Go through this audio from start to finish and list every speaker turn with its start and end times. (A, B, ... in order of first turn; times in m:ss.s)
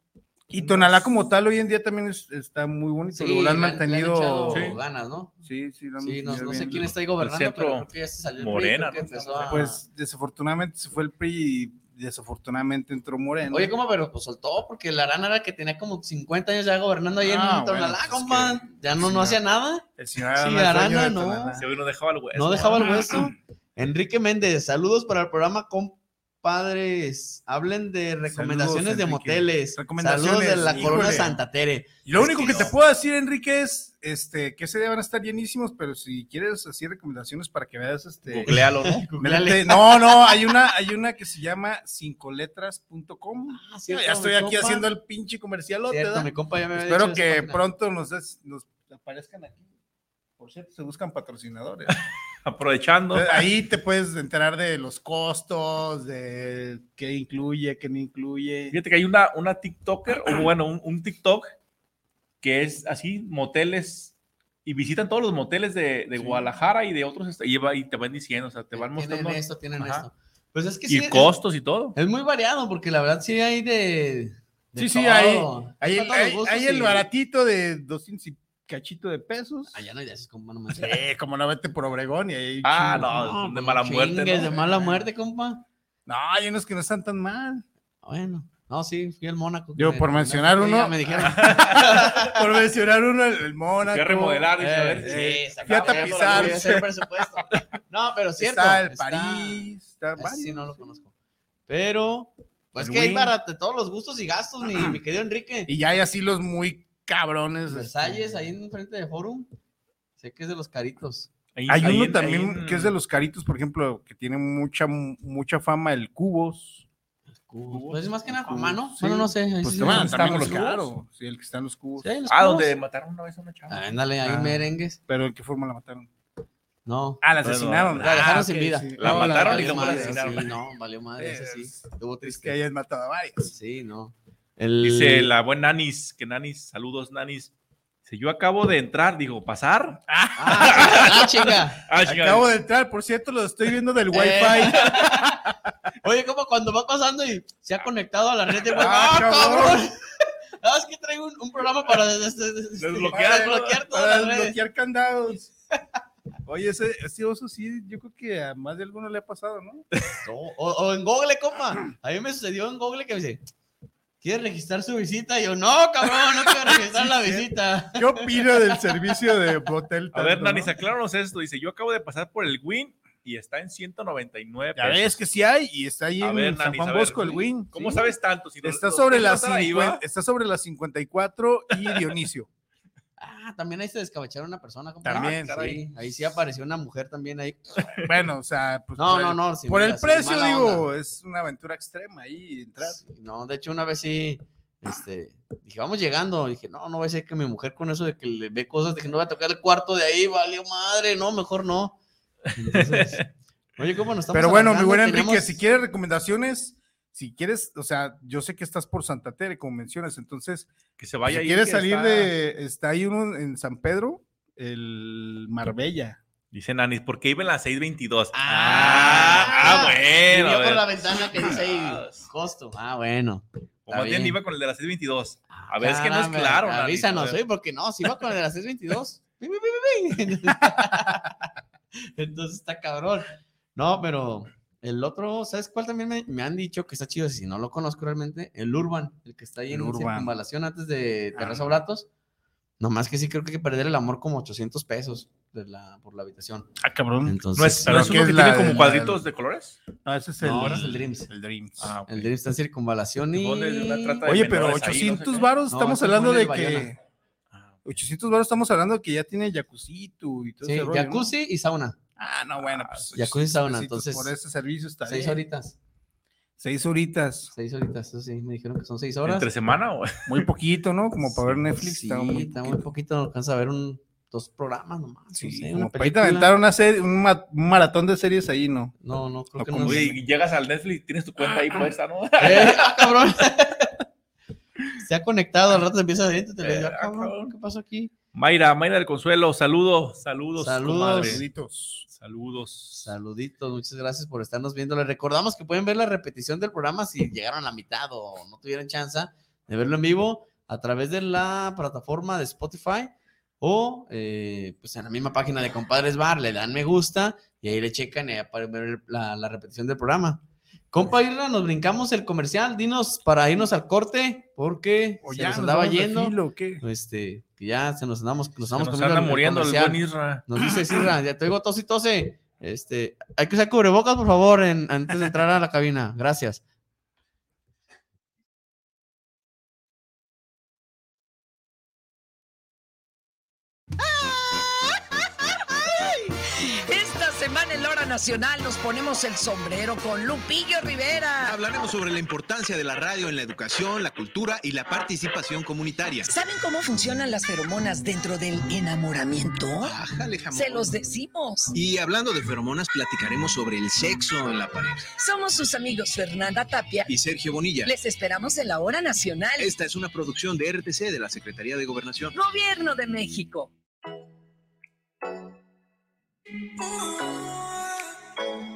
0:00.5-0:04.8 A
0:00.5-0:01.1 B
0:03.1-0:05.3 C
0:04.5-0:04.8 B
0:05.4-0:06.9 A
0:06.0-0:09.8 C
0:07.2-0:09.6 B
0:09.5-0:13.7 A
0:13.5-0:19.8 C
0:17.2-0:19.4 A
0:20.0-0:21.7 A
0:20.4-0:21.6 C
0:21.6-0:23.2 B
0:22.3-0:32.7 C
0:28.3-0:31.4 A
0:30.7-0:31.3 B
0:32.0-0:38.5 A
0:32.4-0:32.7 B
0:38.3-0:39.0 B
0:38.5-0:40.4 C
0:39.2-0:49.7 A
0:43.5-0:44.9 C
0:45.9-0:47.6 C
0:50.4-0:52.0 A
0:51.9-0:53.4 B
0:53.1-0:58.8 A
0:58.7-1:01.5 B
1:02.4-1:04.1 B
1:04.6-1:10.1 B
1:06.2-1:06.4 A
1:08.7-1:11.3 C
1:10.9-1:12.0 B
1:11.9-1:17.1 C
1:14.8-1:19.8 A
1:19.7-1:21.0 C
1:20.7-1:23.3 A
1:22.6-1:24.6 B
1:23.0-1:25.6 C
1:24.5-1:25.0 A
1:26.1-1:27.6 A
1:28.0-1:32.4 C
1:29.8-1:34.5 A
1:31.2-1:32.1 B
1:33.9-1:36.8 B
1:34.6-1:41.1 C
1:35.0-1:36.8 A
1:38.4-1:41.0 A
1:41.7-1:45.7 C
1:42.8-1:43.3 A
1:45.7-1:48.4 A
1:47.7-1:49.5 C
1:50.2-1:51.3 C
1:51.5-1:52.9 B
1:51.7-1:56.8 A
1:57.4-2:00.6 C
1:57.7-1:58.0 B
1:58.3-2:02.1 A
1:59.7-2:00.9 B
2:02.0-2:02.7 C
2:02.3-2:04.0 B
2:03.7-2:05.0 C
2:04.2-2:06.1 A
2:06.8-2:07.2 C
2:07.2-2:10.5 A
2:07.4-2:10.5 B
2:08.0-2:12.6 C
2:11.2-2:13.5 A
2:13.4-2:15.3 C
2:14.8-2:17.5 B
2:18.0-2:20.0 B
2:20.1-2:21.5 A
2:20.4-2:21.8 C
2:20.6-2:22.5 B
2:22.0-2:25.7 A
2:24.1-2:25.4 C
2:26.0-2:29.9 C
2:28.8-2:29.8 A
2:30.6-2:34.6 C
2:32.8-2:33.8 B
2:33.1-2:35.5 A
2:36.4-2:39.8 A
2:40.2-2:43.4 C
2:44.2-2:48.5 C
2:47.1-2:50.8 A
2:50.1-2:55.2 B
2:54.8-3:02.5 A
2:56.2-3:00.0 B
3:03.2-3:07.8 C
3:05.0-3:05.6 A
3:05.1-3:05.8 B
3:08.0-3:13.0 A
3:09.0-3:10.8 C
3:12.8-3:22.0 C
3:22.5-3:23.2 C
3:22.7-3:23.2 B
3:23.8-3:25.6 C
3:24.3-3:30.7 A
3:31.0-3:32.3 B
3:31.2-3:36.2 A
3:36.5-3:42.3 B
3:38.3-3:44.4 C
3:43.9-3:47.4 B
3:45.5-3:51.4 C
3:50.8-3:51.1 A
3:52.0-4:02.1 C
3:59.7-4:00.3 A
4:01.4-4:01.7 A
4:02.8-4:06.7 C
4:06.8-4:09.2 A
4:07.2-4:08.0 C
4:07.6-4:09.8 B
4:10.0-4:11.9 A
4:10.4-4:11.3 C
4:10.6-4:11.0 B
4:11.8-4:12.3 B
4:12.1-4:14.2 C
4:13.3-4:15.5 B
4:14.2-4:17.0 A
4:15.7-4:16.9 C
4:17.5-4:17.8 B
4:17.8-4:21.3 A
4:20.6-4:22.0 C
4:22.2-4:25.4 A
4:22.6-4:23.1 B
4:23.1-4:24.3 C
4:25.1-4:25.8 C
4:26.6-4:27.5 A
4:27.5-4:29.5 C
4:29.2-4:30.4 B
4:30.3-4:32.8 A
4:31.7-4:36.5 C
4:35.3-4:38.9 A
4:39.0-4:40.2 C
4:39.6-4:40.1 A
4:39.8-4:43.2 B
4:42.4-4:43.9 C
4:45.0-4:48.1 C
4:46.6-4:47.5 B
4:48.3-4:51.4 B
4:50.6-4:51.4 C
4:51.2-4:52.1 A
4:52.1-4:53.1 B
4:53.0-5:26.6 C
5:15.2-5:16.8 A
5:18.7-5:20.4 B
5:34.0-5:34.6 D
5:35.8-5:41.6 D
5:41.4-5:46.3 E
5:46.2-5:50.0 D
5:49.8-5:50.9 E
5:50.5-5:51.7 D
5:51.7-5:55.0 E
5:55.2-5:57.1 D
5:57.1-5:57.9 E
5:57.8-5:59.7 D
5:59.6-6:02.3 E
6:02.3-6:03.7 D